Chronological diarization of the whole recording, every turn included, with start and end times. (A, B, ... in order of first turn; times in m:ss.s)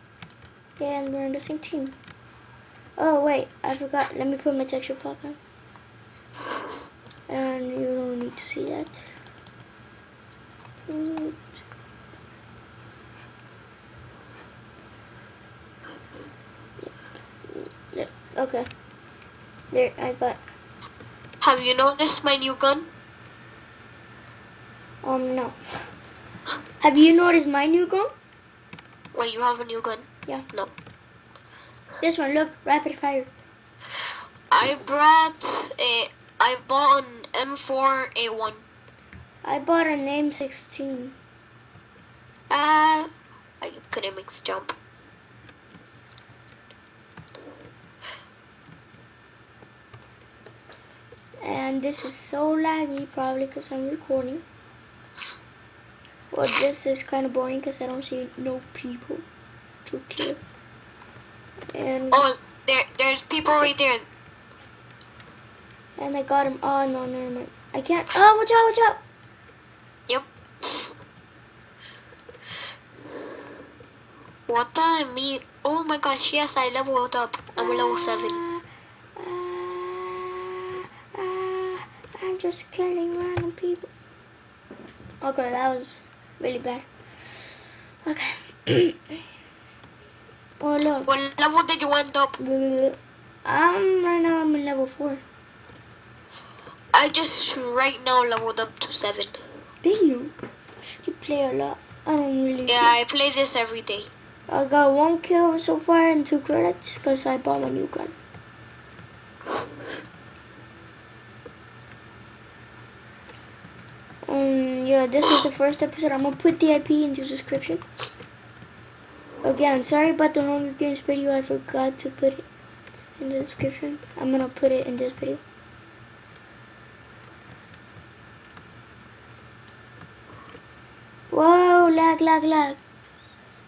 0:00.8-0:02.0 A
0:03.0-0:05.4 A
0:07.3-0:09.1 A
0:10.9-0:11.6 A
0:17.5-0:18.7 A
0:19.7-0:20.4 A
0:21.4-0:22.9 B
0:25.0-0:25.6 A
0:26.8-0:28.1 A
0:29.1-0:30.7 B
0:32.0-0:33.3 A
0:34.5-0:38.6 B
0:39.4-0:41.2 A
0:42.5-0:43.1 B
0:43.6-0:44.8 B
0:51.4-0:54.4 A
0:56.3-0:59.2 A
0:59.9-1:00.4 A
1:01.7-1:02.2 A
1:02.1-1:04.1 B
1:06.0-1:09.0 A
1:10.1-1:10.9 B
1:14.5-1:18.4 B
1:17.6-1:18.6 A
1:19.2-1:23.9 A
1:25.2-1:26.9 A
1:28.1-1:29.0 A
1:30.6-1:31.1 A
1:31.0-1:32.4 B
1:32.4-1:35.2 A
1:36.9-1:39.4 B
1:39.8-1:42.9 A
1:42.7-1:44.1 B
1:44.5-1:48.2 A
1:54.3-1:57.8 A
1:59.4-2:02.5 A
2:03.2-2:05.4 A
2:11.3-2:12.8 A